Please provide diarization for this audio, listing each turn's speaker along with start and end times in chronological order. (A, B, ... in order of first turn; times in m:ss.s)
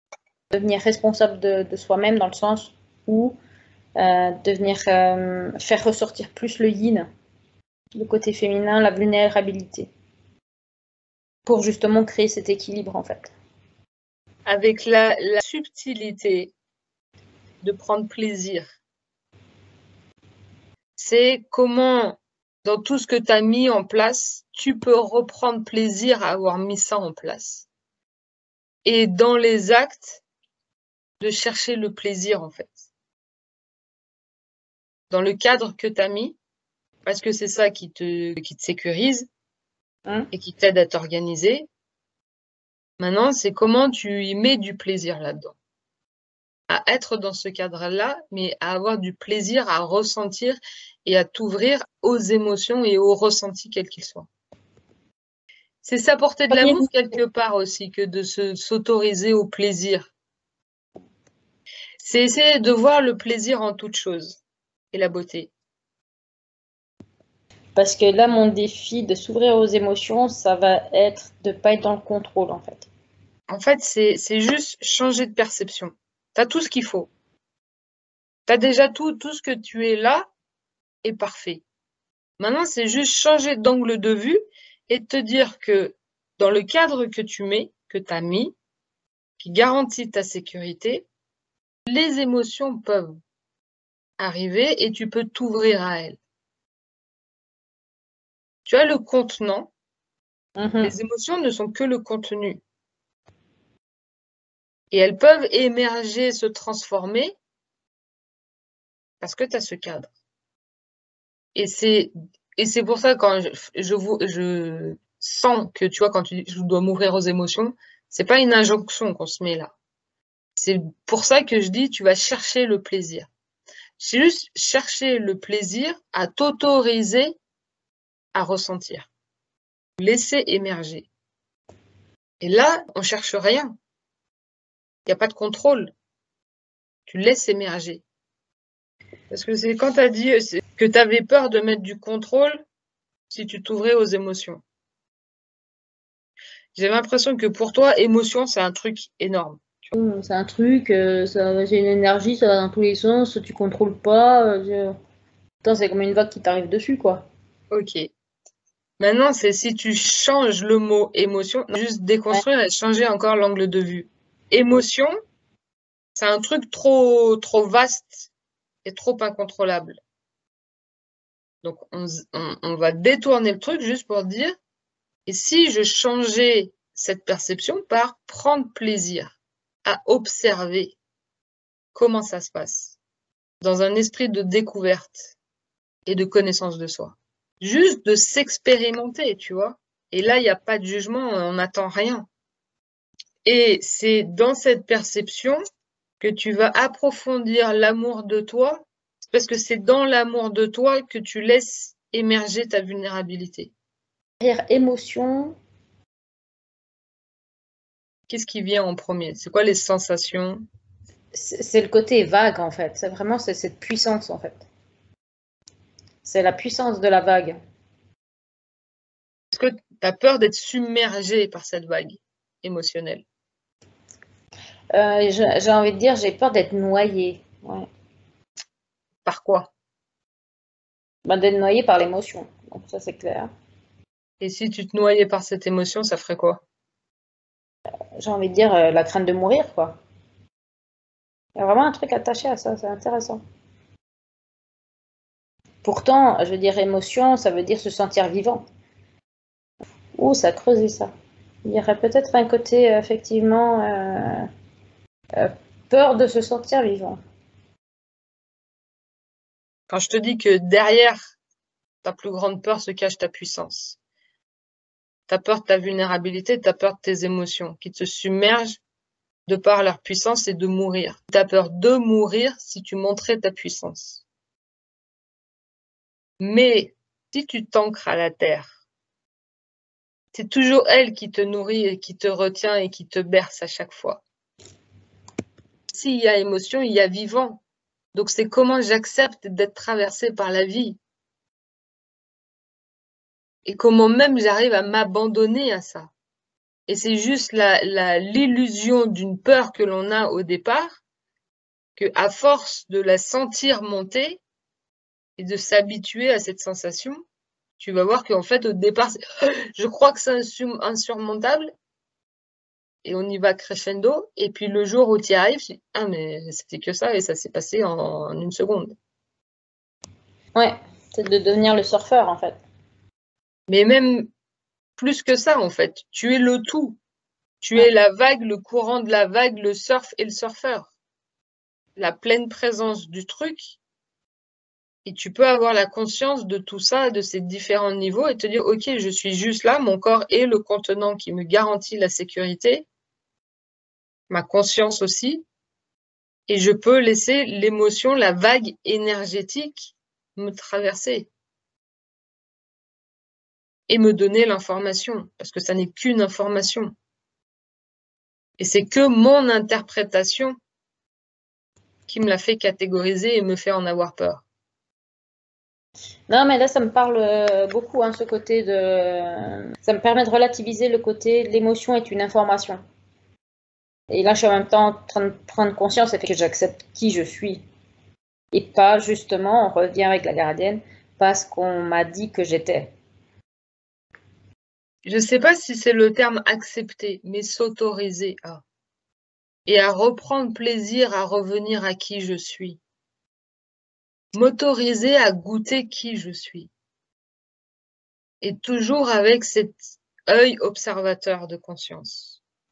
0:00.5-0:03.4 A
0:04.0-0:07.1 A
0:08.0-0:09.9 A
0:11.5-0:13.3 A
0:14.5-0:16.5 B
0:17.6-0:18.8 B
0:21.0-0:27.7 B
0:28.8-0:30.2 B
0:31.2-0:32.9 B
0:35.1-0:36.4 B
0:37.1-0:39.3 B
0:40.3-0:41.7 B
0:43.0-0:45.6 B
0:46.7-0:54.3 B
0:55.8-1:00.1 B
1:02.0-1:04.4 B
1:04.9-1:05.5 B
1:07.8-1:12.9 A
1:13.5-1:17.1 B
1:18.5-1:20.3 B
1:21.0-1:21.6 B
1:22.4-1:28.6 B
1:29.4-1:31.1 B
1:31.9-1:33.2 B
1:34.2-1:36.2 B
1:38.7-1:39.7 B
1:40.6-1:40.9 A
1:40.8-1:42.6 B
1:44.9-1:47.4 B
1:49.2-1:50.1 B
1:51.6-1:59.7 B
2:00.6-2:03.3 B
2:04.0-2:07.4 B
2:08.4-2:09.1 B
2:10.0-2:11.1 B
2:12.4-2:13.8 B
2:15.1-2:15.9 B
2:17.1-2:18.0 B
2:19.3-2:22.6 B
2:23.3-2:24.6 B
2:26.8-2:29.9 B
2:30.0-2:34.9 A
2:35.6-2:37.3 A
2:37.7-2:38.1 B
2:39.0-2:45.1 B
2:46.2-2:48.3 B
2:48.8-2:50.0 B
2:51.6-2:54.6 B
2:55.3-3:01.0 B
3:01.9-3:03.0 B
3:03.6-3:05.4 B
3:06.1-3:12.3 B
3:13.4-3:15.6 B
3:16.2-3:23.7 B
3:24.4-3:25.6 A
3:28.3-3:30.6 B
3:31.3-3:34.7 A
3:36.2-3:37.6 A
3:39.5-3:43.2 B
3:44.9-3:47.9 A
3:49.2-3:49.7 B
3:51.2-3:53.5 A
3:54.4-3:56.6 B
3:58.2-4:00.0 A
4:01.6-4:03.4 A
4:05.8-4:08.6 A
4:10.2-4:11.1 A
4:11.6-4:14.5 A
4:15.4-4:17.2 A
4:19.9-4:21.3 B
4:22.0-4:24.0 B
4:25.3-4:28.8 B
4:29.5-4:34.2 B
4:36.4-4:38.8 B
4:40.3-4:44.2 B
4:45.9-4:47.6 B
4:48.1-4:51.0 B
4:53.6-4:56.1 B
4:56.9-5:01.0 B
5:02.0-5:04.4 B
5:05.4-5:07.2 B
5:07.8-5:09.2 B
5:09.8-5:11.7 B
5:13.0-5:19.0 B
5:20.6-5:22.6 A
5:23.7-5:24.3 B
5:25.0-5:27.0 B
5:27.6-5:30.9 B
5:32.0-5:33.8 B
5:35.0-5:42.9 B
5:44.3-5:45.4 B
5:46.5-5:51.3 B
5:53.9-5:56.9 B
5:58.6-6:00.6 B
6:02.1-6:04.4 B
6:06.3-6:12.8 A
6:14.1-6:17.6 A
6:18.5-6:22.9 A
6:25.0-6:28.6 B
6:29.7-6:32.8 B
6:34.3-6:36.7 B
6:38.4-6:42.4 B